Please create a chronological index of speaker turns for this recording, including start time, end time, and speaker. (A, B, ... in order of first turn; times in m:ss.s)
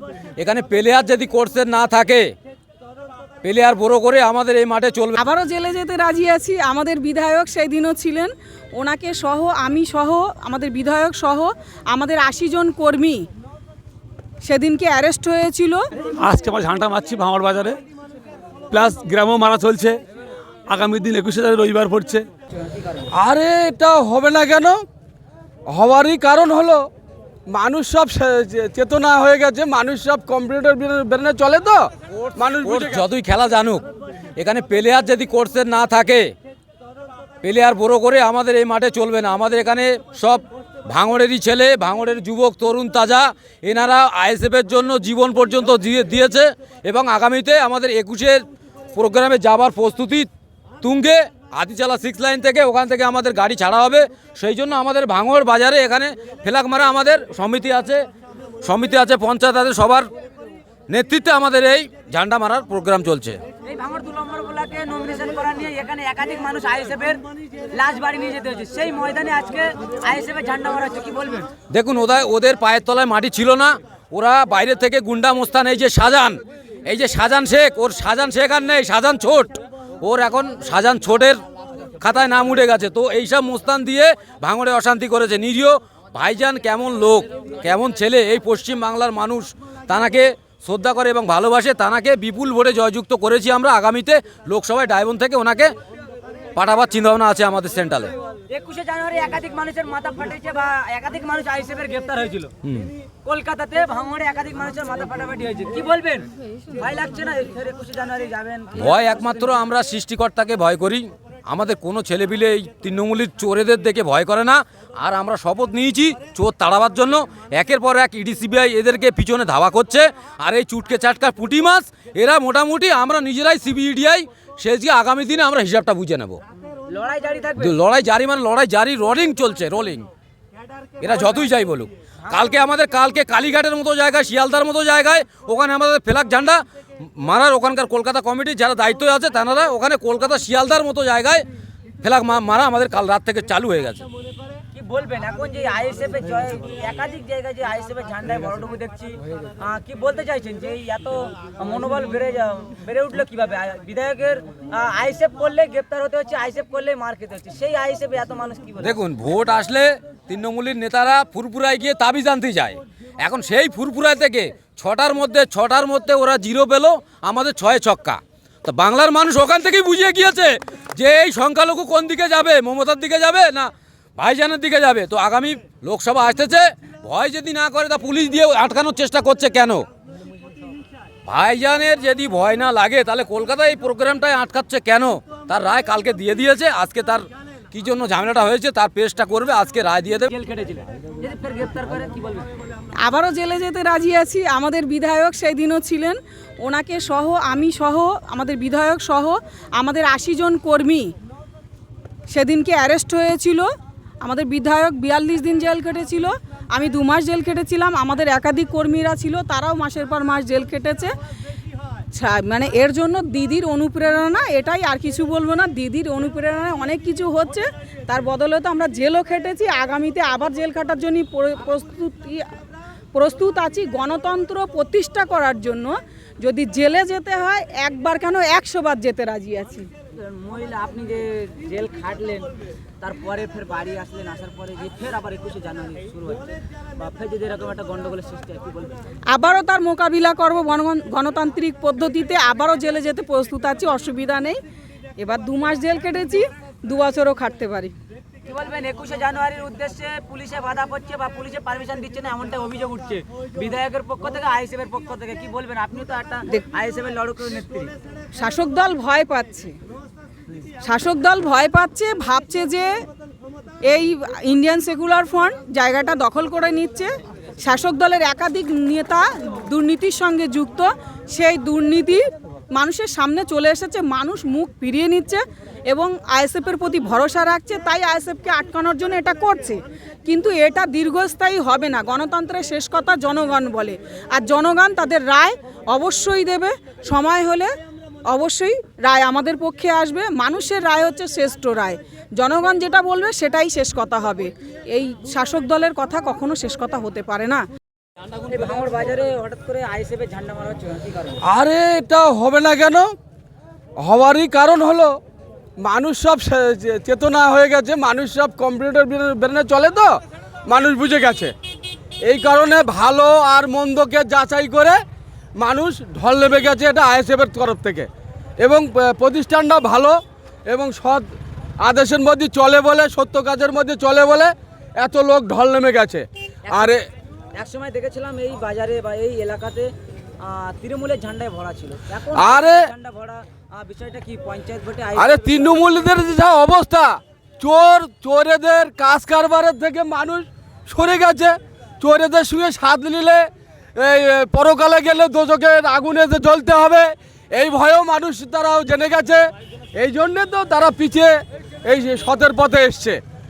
0:00.4-0:02.3 A
0:03.4-0:05.2 A
0:05.2-0:13.2 B
0:14.4-0:15.8 B
0:16.2-0:17.8 C
0:18.7-0:20.0 C
0:20.7-0:22.3 C
0:22.6-0:23.1 D
0:23.2-0:24.8 E
0:25.7-0:26.8 E
0:27.5-0:33.1 E
0:32.1-0:33.8 A
0:34.4-0:36.3 A
0:37.4-0:48.4 A
0:48.9-0:50.3 A
0:50.8-0:58.0 A
0:58.6-1:00.1 A
1:00.9-1:03.4 A
1:03.6-1:11.5 D
1:11.7-1:21.4 A
1:22.0-1:35.7 A
1:36.6-1:38.1 A
1:38.5-1:42.5 D
1:42.6-1:42.9 A
1:43.2-1:49.2 D
1:48.8-2:06.4 A
2:06.9-2:07.8 D
2:07.6-2:10.1 A
2:11.0-2:16.6 A
2:17.2-2:21.4 A
2:22.0-2:24.0 A
2:24.7-2:39.0 D
2:38.8-2:59.8 A
3:01.3-3:10.3 A
3:10.3-3:12.5 D
3:13.0-3:21.1 B
3:22.3-3:23.7 B
3:24.2-3:31.1 B
3:32.1-3:42.5 B
3:43.1-3:49.9 B
3:50.2-3:59.0 D
3:59.3-4:04.6 B
4:05.2-4:07.9 B
4:08.5-4:17.9 D
4:18.4-4:19.8 B
4:20.8-4:22.9 B
4:23.9-4:27.1 B
4:27.6-4:32.2 B
4:32.8-4:47.7 B
4:48.3-4:57.6 B
4:58.4-5:01.4 D
5:01.4-5:03.1 E
5:04.0-5:05.2 E
5:05.8-5:11.5 E
5:12.3-5:15.0 E
5:15.6-5:18.1 E
5:18.6-5:21.3 E
5:21.8-5:27.0 E
5:26.6-5:27.0 D
5:27.6-5:36.0 D
5:32.3-5:32.9 E
5:35.2-5:49.5 E
5:50.0-5:53.2 E